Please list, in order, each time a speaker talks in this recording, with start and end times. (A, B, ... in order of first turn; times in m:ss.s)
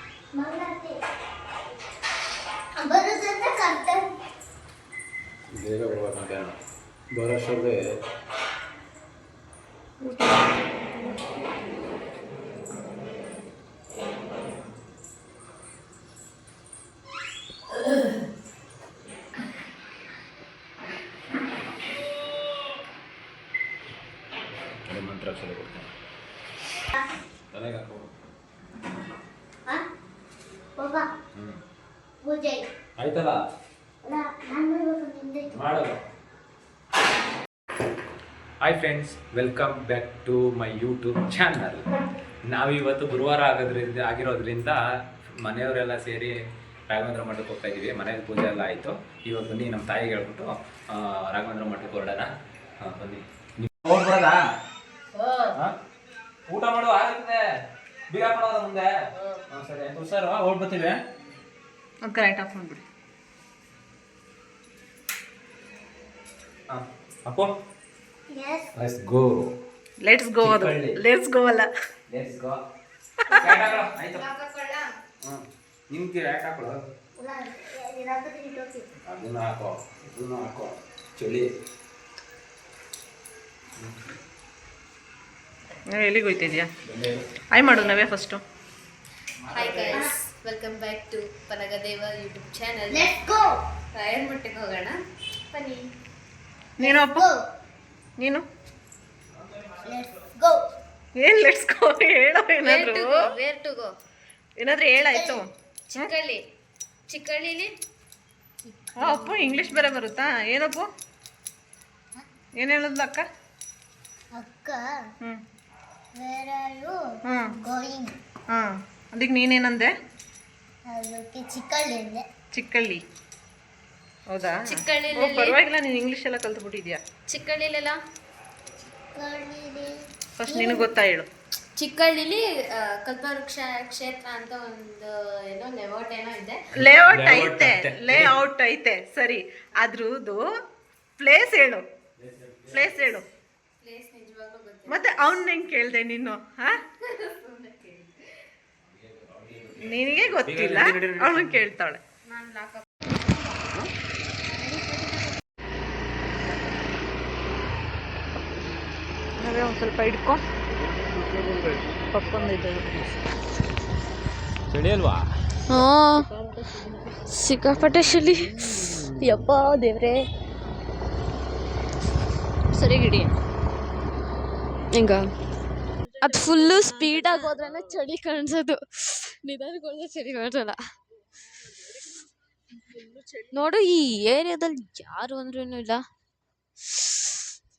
0:00.4-0:01.0 A
0:02.8-0:04.1 A
0:05.5-0:06.6 B
0:07.1-0:07.8 B
0:24.9-0:25.9 B
0:27.5-0:28.1 B
0:30.8-0:31.1 A
0:32.2-0:32.6 A
0:33.0-0:33.4 B
0:34.0-0:35.6 A
0:35.5-0:36.0 B
0:38.6-0:41.8 B
0:42.5-0:44.8 B
0:45.4-0:46.3 B
0:46.9-0:52.3 B
0:52.8-0:54.4 B
0:55.2-0:55.5 C
0:56.5-0:57.4 B
0:58.1-0:58.9 B
0:59.5-1:01.0 B
1:02.0-1:02.8 D
1:06.7-1:07.5 B
1:08.3-1:08.7 A
1:08.8-1:09.5 B
1:10.0-1:11.7 D
1:10.4-1:11.0 B
1:12.1-1:12.6 B
1:13.3-1:14.2 B
1:13.4-1:14.9 C
1:15.2-1:16.8 B
1:17.2-1:18.9 A
1:19.1-1:21.5 B
1:25.9-1:26.7 D
1:26.8-1:27.3 B
1:27.5-1:28.4 D
1:27.6-1:28.0 C
1:29.5-1:30.0 B
1:29.5-1:33.1 C
1:29.9-1:30.2 A
1:32.9-1:33.6 A
1:33.9-1:35.0 C
1:35.5-1:35.8 C
1:36.8-1:37.3 D
1:36.8-1:37.4 A
1:38.2-1:38.4 D
1:39.8-1:40.6 A
1:41.2-1:43.2 D
1:42.6-1:43.9 C
1:44.6-1:45.4 D
1:45.1-1:45.4 A
1:45.9-1:46.4 C
1:47.1-1:47.7 C
1:48.7-1:49.9 A
1:49.0-1:50.9 D
1:52.6-1:53.3 D
1:54.3-1:54.9 A
1:56.2-1:58.2 A
1:57.3-1:57.6 D
1:58.5-1:59.9 D
2:00.9-2:02.2 A
2:02.6-2:03.0 D
2:04.3-2:07.0 D
2:04.7-2:05.6 C
2:07.3-2:08.0 C
2:09.2-2:09.9 A
2:10.4-2:11.3 D
2:10.5-2:10.9 A
2:11.8-2:16.7 C
2:16.7-2:20.4 D
2:16.8-2:18.4 B
2:21.2-2:21.8 D
2:22.2-2:22.9 B
2:22.7-2:23.3 D
2:23.8-2:25.2 C
2:24.9-2:26.7 D
2:27.0-2:28.3 C
2:28.9-2:31.6 B
2:29.8-2:32.0 D
2:32.3-2:33.0 C
2:39.4-2:40.4 D
2:40.8-2:41.9 B
2:42.0-2:43.1 D
2:44.7-2:45.2 B
2:45.7-2:46.3 C
2:45.8-2:47.2 D
2:47.3-2:48.7 C
2:47.8-2:49.5 B
2:49.2-2:50.3 C
2:52.7-2:53.3 D
2:54.9-2:55.3 C
2:56.0-2:58.0 D
2:56.2-3:00.8 C
3:01.2-3:02.3 D
3:02.8-3:03.7 D
3:03.5-3:06.0 C
3:06.9-3:07.2 C